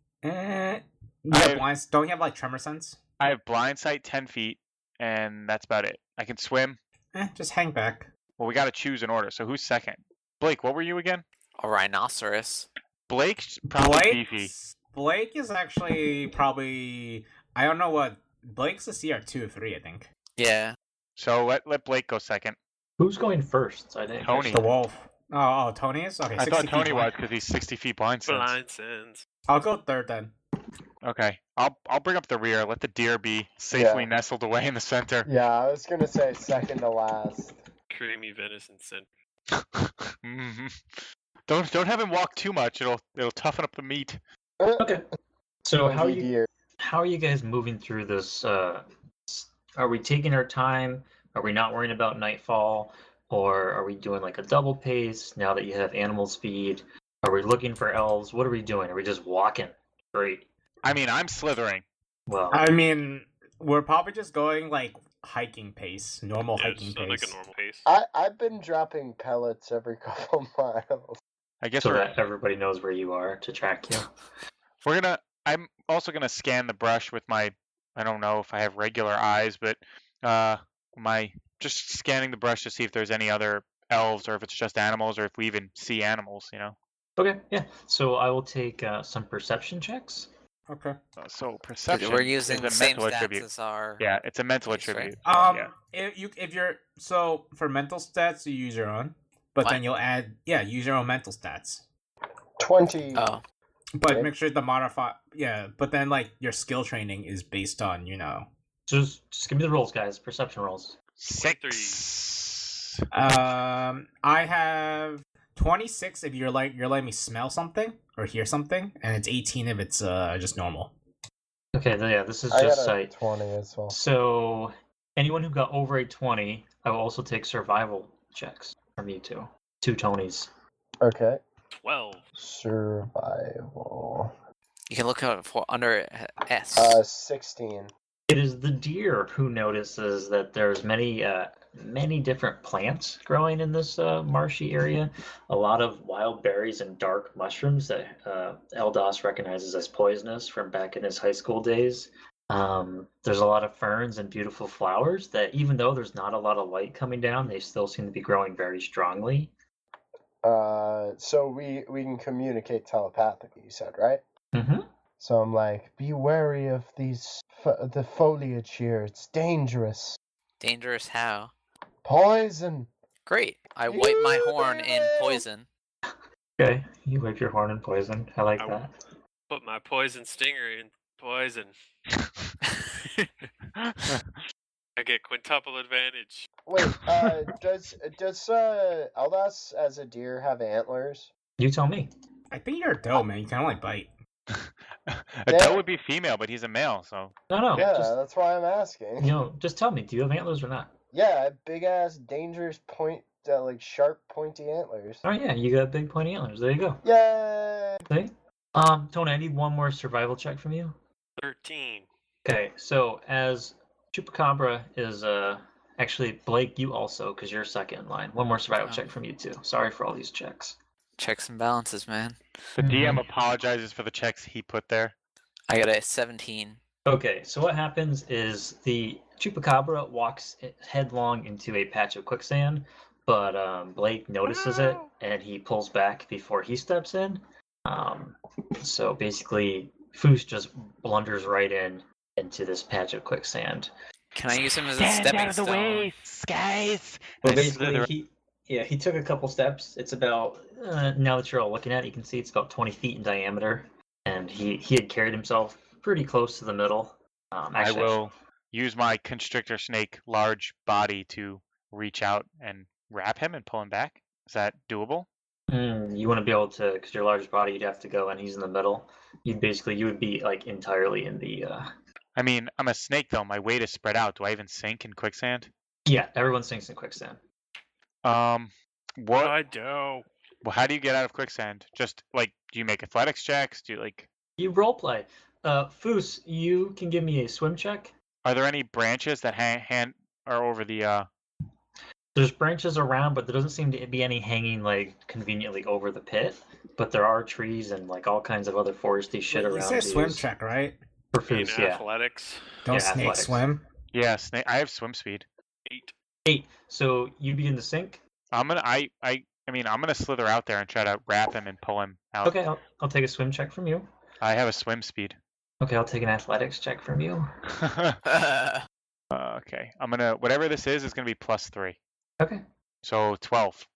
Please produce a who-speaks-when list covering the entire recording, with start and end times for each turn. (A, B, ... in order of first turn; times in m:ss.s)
0:00.2-0:03.0 A
0:01.3-0:01.6 B
0:03.2-0:06.8 B
0:07.1-0:08.1 A
0:08.4-0:11.2 B
0:11.6-0:12.7 C
0:13.1-0:14.5 B
0:13.7-0:20.1 A
0:20.4-0:20.8 C
0:21.2-0:22.6 B
0:23.0-0:24.6 D
0:24.2-0:24.6 B
0:24.5-0:27.1 A
0:26.4-0:28.6 B
0:28.3-0:29.2 E
0:29.5-0:30.3 A
0:31.0-0:35.3 B
0:33.7-0:34.1 F
0:35.3-0:37.6 F
0:37.9-0:39.1 E
0:39.5-0:44.2 B
0:44.6-0:44.9 F
0:44.8-0:45.0 D
0:45.6-1:00.5 D
0:45.8-0:46.5 F
1:00.8-1:01.8 B
1:02.3-1:02.7 D
1:02.5-1:07.4 A
1:06.6-1:07.8 E
1:07.8-1:11.2 F
1:11.6-1:12.2 B
1:11.8-1:14.1 D
1:14.8-1:26.8 B
1:27.2-1:30.3 D
1:30.7-1:31.0 A
1:31.2-1:33.5 B
1:31.9-1:34.0 C
1:34.0-1:35.7 B
1:34.7-1:35.1 C
1:35.2-1:41.8 A
1:42.6-1:43.2 F
1:43.1-1:43.4 C
1:44.0-1:48.5 A
1:48.9-1:51.0 D
1:51.2-1:53.4 B
1:51.3-1:52.0 E
1:53.1-2:00.9 A
2:01.7-2:03.1 D
2:02.5-2:04.0 F
2:03.9-2:10.5 D
2:11.0-2:11.4 F
2:11.7-2:12.2 E
2:12.4-2:14.3 F
2:14.9-2:17.0 C
2:16.8-2:17.9 F
2:18.3-2:39.5 D
2:40.4-2:44.2 F
2:44.5-2:44.9 D
2:45.2-2:50.2 F
2:50.6-2:51.5 C
2:52.0-2:52.9 F
2:53.3-2:55.7 C
2:53.9-2:55.4 F
2:56.6-2:58.9 D
2:58.6-2:58.8 E
2:59.5-3:01.7 E
3:03.8-3:04.4 B
3:05.0-3:06.5 E
3:06.7-3:11.3 F
3:11.6-3:12.1 D
3:12.5-3:14.1 A
3:14.5-3:17.3 B
3:15.5-3:15.8 F
3:17.5-3:18.2 D
3:17.7-3:19.3 F
3:19.2-3:20.9 D
3:21.1-3:25.2 F
3:25.2-3:27.0 D
3:27.0-3:28.0 F
3:28.1-3:31.0 D
3:31.4-3:32.1 E
3:32.4-3:40.8 D
3:41.2-3:42.4 C
3:42.8-3:45.2 B
3:42.8-3:43.2 D
3:45.7-3:46.8 C
3:47.0-4:03.9 D
3:54.5-3:55.1 E
4:04.4-4:06.1 C
4:05.0-4:08.1 B
4:07.4-4:18.2 D
4:17.8-4:25.3 B
4:25.7-4:31.9 D
4:32.4-4:35.7 B
4:36.1-4:37.4 D
4:38.2-4:39.6 B
4:39.3-4:40.3 E
4:40.6-4:44.3 B
4:44.6-4:48.1 D
4:48.4-4:51.3 B
4:52.4-5:00.5 D
4:59.5-5:01.0 A
5:01.3-5:02.1 D
5:01.5-5:02.7 E
5:02.8-5:03.8 A
5:02.9-5:03.6 D
5:04.1-5:05.5 B
5:05.9-5:06.1 E
5:06.5-5:08.2 D
5:08.5-5:12.6 B
5:12.4-5:14.1 D
5:14.4-5:15.4 B
5:15.8-5:17.5 D
5:17.7-5:18.2 B
5:18.3-5:18.8 C
5:19.3-5:22.0 B
5:23.0-5:23.9 B